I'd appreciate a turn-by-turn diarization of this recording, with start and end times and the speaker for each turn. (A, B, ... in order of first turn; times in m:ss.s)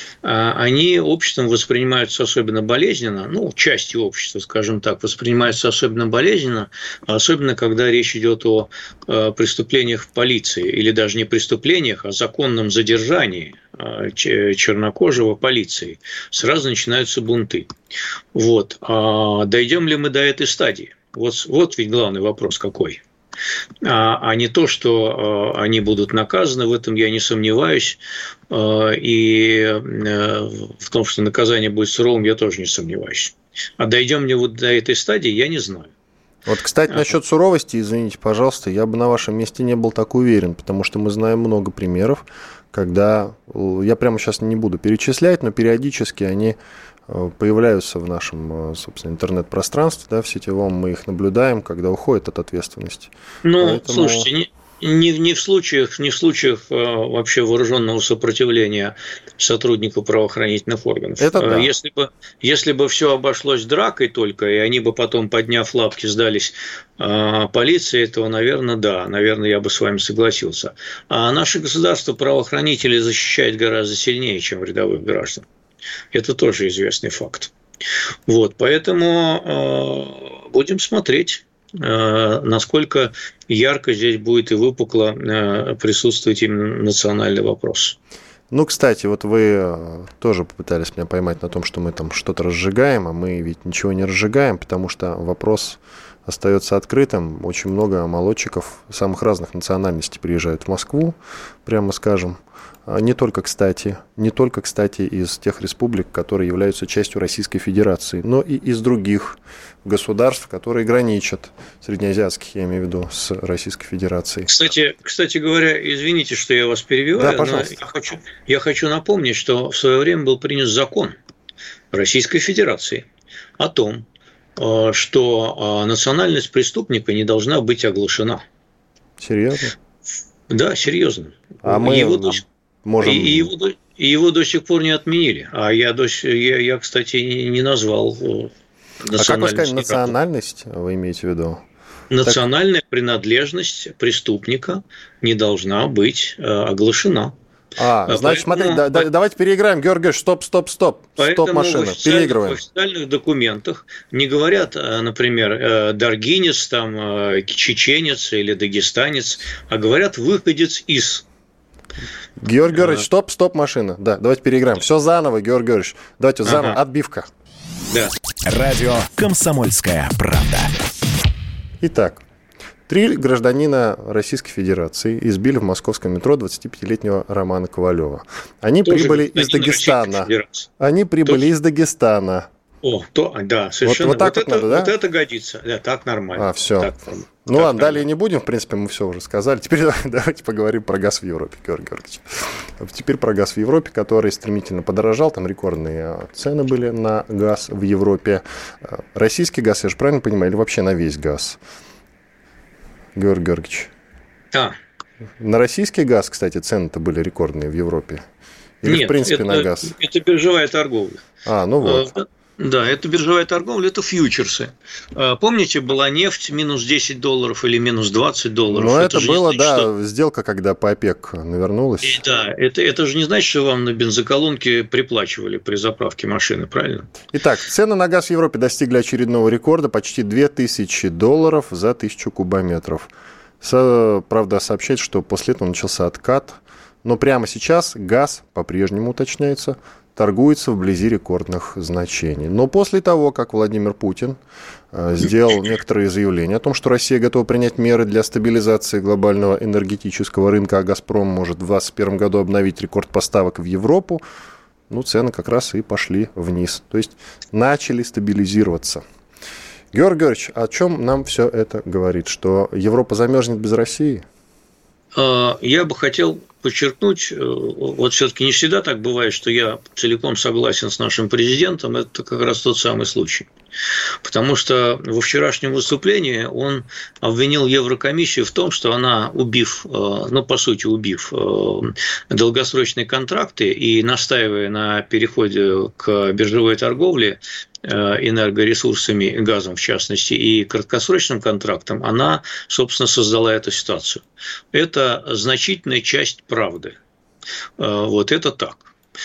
0:00.2-0:17.7 A
0:18.3-0:23.0 A
0:23.8-0:28.0 A
0:28.5-0:35.9 A
0:36.5-0:54.3 B
0:53.4-1:15.4 A
1:01.2-1:01.7 B
1:16.1-1:17.5 A
1:18.3-1:28.0 A
1:28.5-1:54.5 B
1:54.5-2:01.2 A
1:57.2-1:57.8 B
2:01.9-2:03.1 A
2:03.6-2:04.0 A
2:04.6-2:08.4 A
2:09.2-2:09.8 B
2:10.5-2:12.4 A
2:11.6-2:13.5 B
2:13.0-2:18.5 A
2:19.0-2:20.1 A
2:19.2-2:21.6 B
2:22.1-2:27.4 A
2:27.8-2:32.6 B
2:28.1-2:29.1 A
2:31.2-2:41.2 A
2:42.4-2:47.3 B
2:42.8-2:43.0 A
2:46.5-2:46.8 A
2:48.4-2:50.7 C
2:51.8-2:52.2 B
2:52.9-3:02.5 B
2:58.8-3:00.7 A
3:02.8-3:08.0 A
3:03.8-3:04.9 B
3:06.4-3:21.6 B
3:23.2-3:23.9 B
3:25.4-3:28.2 B
3:28.8-3:29.9 B
3:28.8-3:31.2 A
3:31.4-3:32.1 B
3:31.8-3:39.9 A
3:38.7-3:42.2 B
3:42.0-3:47.1 A
3:47.3-3:53.1 B
3:53.6-4:04.4 B
4:04.9-4:14.2 B
4:14.9-4:19.0 B
4:19.9-4:24.2 B
4:25.2-4:33.5 A
4:34.2-4:57.0 A
4:57.8-4:58.9 A